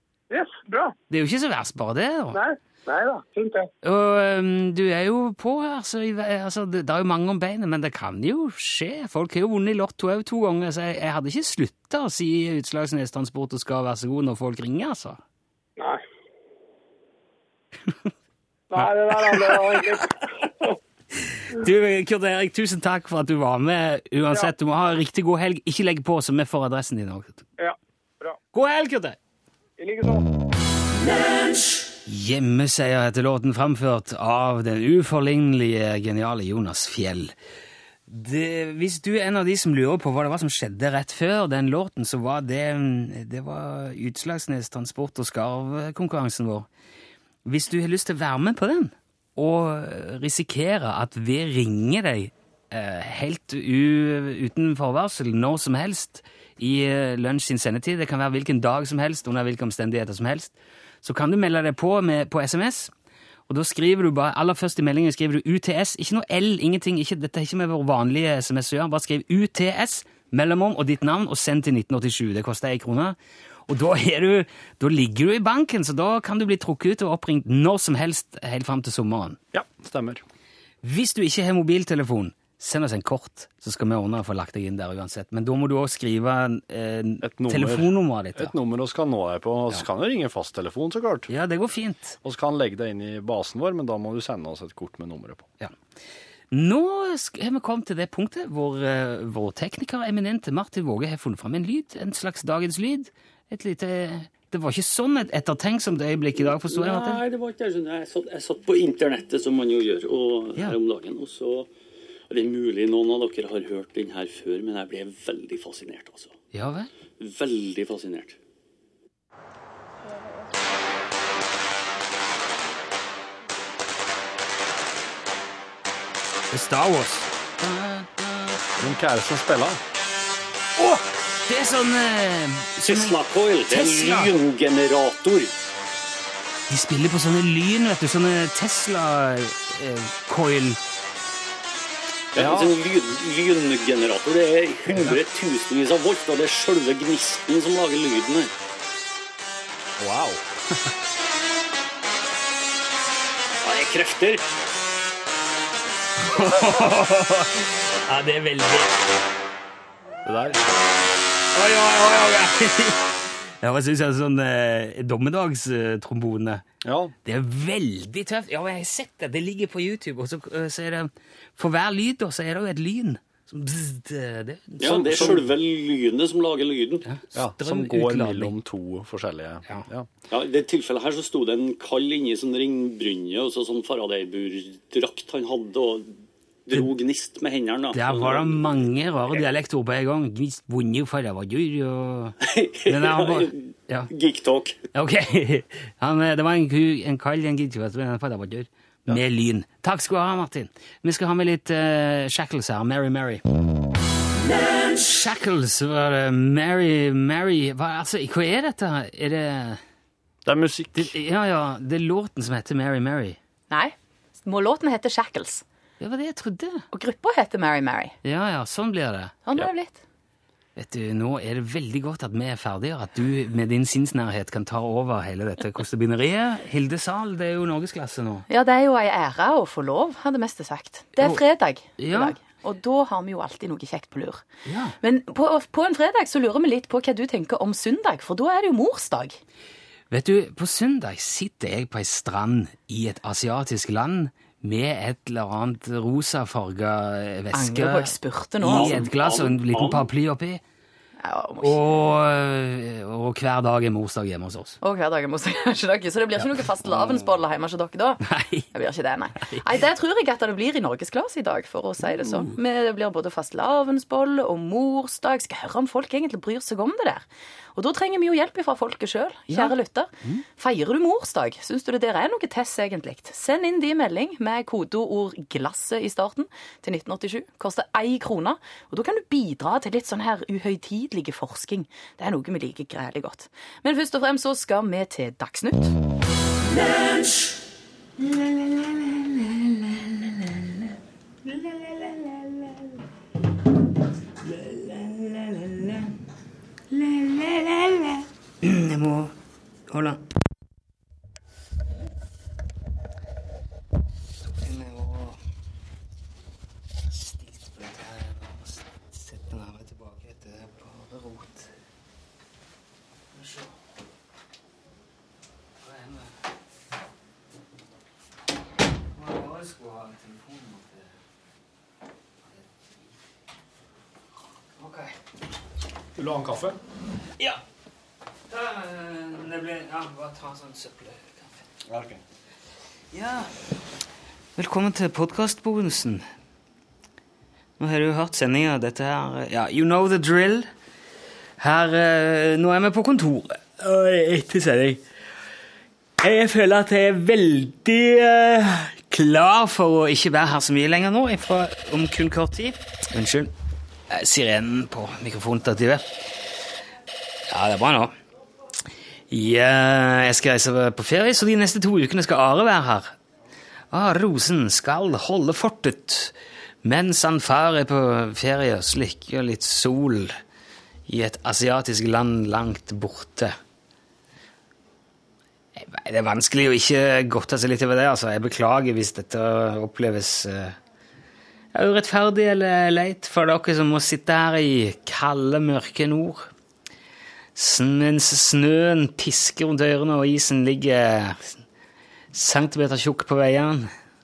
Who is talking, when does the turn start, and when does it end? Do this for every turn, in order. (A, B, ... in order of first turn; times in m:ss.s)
0:00.3-0:00.9 A
0:01.1-0:02.4 B
0:02.3-0:03.7 A
0:03.8-0:15.2 B
0:15.8-0:16.0 A
0:18.7-0:20.8 A
0:18.8-0:19.6 B
0:21.5-0:27.4 B
0:27.6-0:28.4 A
0:28.5-0:29.2 B
0:29.8-0:30.3 A
0:32.0-0:37.3 B
0:38.1-0:46.7 B
0:47.4-1:02.9 B
1:03.5-1:13.2 B
1:13.7-1:19.4 B
1:19.5-1:20.2 C
1:20.8-1:28.5 B
1:27.2-1:31.3 C
1:31.3-1:32.2 B
1:32.2-1:35.5 C
1:36.5-1:47.2 B
1:46.4-1:51.7 D
1:52.3-1:56.3 D
1:56.5-1:56.9 B
1:57.2-1:58.4 D
2:06.5-2:08.6 B
2:08.8-2:09.8 C
2:10.8-2:13.2 B
2:12.8-2:15.5 D
2:13.7-2:14.3 B
2:16.7-2:20.8 B
2:22.3-2:28.5 D
2:22.4-2:22.7 C
2:30.0-2:30.9 C
2:33.6-2:34.4 D
2:36.2-2:38.9 B
2:40.2-2:40.6 C
2:41.5-2:43.0 B
2:43.6-2:46.6 B
2:46.8-2:47.1 C
2:47.2-2:55.5 B
2:54.8-2:57.0 D
2:55.0-2:55.4 C
2:57.0-2:58.5 B
2:57.3-3:00.1 C
3:00.3-3:08.8 D
3:07.9-3:14.1 B
3:12.4-3:14.8 D
3:14.9-3:23.4 B
3:24.7-3:29.8 B
3:30.4-3:31.1 C
3:30.9-3:33.4 B
3:33.7-3:35.6 E
3:36.0-3:36.8 B
3:36.9-3:38.1 E
3:38.2-3:39.4 B
3:39.4-3:40.0 E
3:40.8-3:48.5 B
3:48.5-3:54.4 E
3:52.0-3:52.4 B
3:54.6-3:55.0 B
3:55.0-3:59.4 E
4:00.1-4:10.6 B
4:07.5-4:09.0 E
4:08.6-4:10.1 D
4:11.2-4:11.8 E
4:11.6-4:14.8 B
4:14.8-4:45.9 E
4:18.2-4:18.7 B
4:29.5-4:30.4 B
4:48.2-4:50.9 B
4:51.5-4:52.5 B
4:54.4-4:56.1 B
4:56.9-4:59.3 B
4:59.9-5:00.2 B
5:04.4-5:05.4 B
5:07.1-5:11.7 B
5:13.3-5:13.7 B
5:15.8-5:16.3 B
5:19.1-5:21.1 B
5:24.8-5:25.1 B
5:26.2-5:26.8 C
5:28.5-5:31.6 B
5:31.8-5:32.2 C
5:33.1-5:33.5 B
5:34.6-5:36.2 B
5:37.8-5:40.7 B
5:41.6-5:45.0 B
5:46.2-5:53.5 B
5:54.1-5:56.0 B
5:57.5-5:58.1 B
5:59.3-6:03.2 B
6:03.9-6:10.3 B
6:11.1-6:13.6 B
6:15.8-6:20.8 B
6:21.7-6:26.5 B
6:27.5-6:31.6 B
6:32.3-6:33.9 B